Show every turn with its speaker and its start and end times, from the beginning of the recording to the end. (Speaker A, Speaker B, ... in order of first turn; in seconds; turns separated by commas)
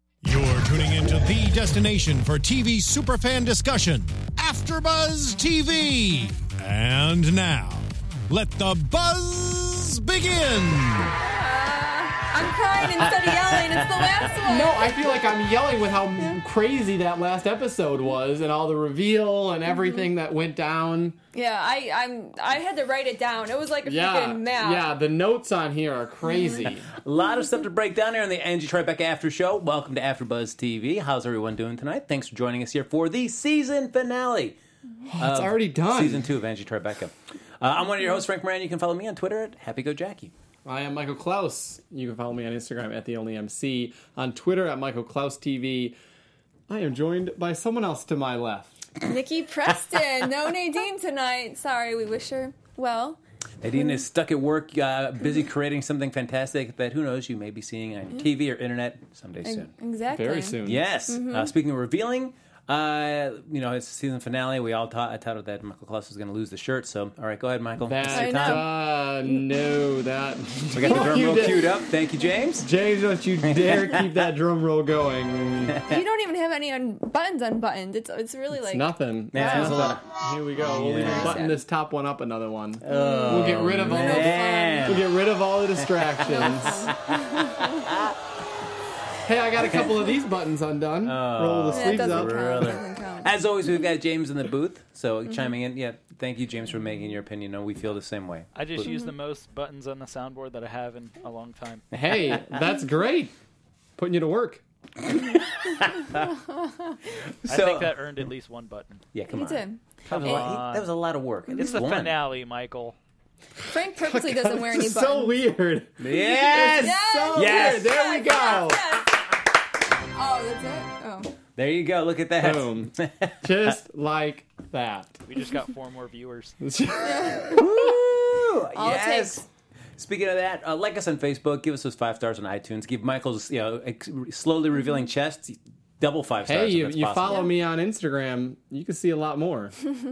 Speaker A: 0.2-11.2, Speaker B: 11.2-15.0, Speaker C: 13.3-13.9, Speaker D: 14.4-21.2, Speaker B: 21.3-24.9, Speaker D: 23.9-26.9, Speaker B: 26.2-26.7, Speaker C: 26.9-34.6, Speaker D: 35.1-36.3, Speaker C: 35.2-40.3, Speaker D: 40.6-45.9, Speaker D: 46.7-48.9, Speaker B: 49.0-53.2, Speaker C: 53.6-59.7, Speaker B: 59.4-61.5, Speaker D: 60.1-60.8, Speaker C: 60.6-68.7, Speaker D: 67.8-71.7, Speaker B: 68.1-68.8, Speaker C: 70.7-72.7, Speaker B: 70.8-71.6, Speaker D: 72.6-75.8, Speaker C: 73.4-74.0, Speaker B: 75.9-80.0, Speaker D: 78.6-86.9, Speaker C: 79.3-80.0, Speaker C: 80.6-81.4, Speaker B: 80.7-81.6, Speaker C: 82.8-85.1, Speaker B: 82.9-85.0, Speaker C: 85.8-88.1, Speaker B: 86.2-87.8, Speaker D: 89.2-92.7, Speaker C: 91.0-98.9, Speaker B: 91.7-93.3, Speaker E: 98.5-101.8, Speaker B: 98.8-99.1, Speaker D: 101.9-103.3, Speaker D: 104.0-104.6, Speaker C: 105.0-106.3, Speaker B: 106.6-106.9, Speaker C: 107.4-108.0, Speaker E: 107.4-109.0, Speaker C: 109.1-112.1, Speaker B: 109.3-110.5, Speaker E: 110.0-110.9, Speaker E: 111.5-113.0, Speaker B: 113.6-115.3, Speaker D: 114.0-118.8, Speaker C: 116.0-118.0, Speaker B: 116.7-119.4, Speaker B: 120.1-121.3, Speaker C: 121.5-123.7, Speaker D: 122.4-125.2, Speaker E: 125.2-126.6, Speaker D: 126.6-127.6, Speaker B: 127.0-127.9, Speaker C: 127.5-129.4, Speaker B: 128.7-129.4, Speaker C: 130.0-137.5, Speaker D: 136.4-139.7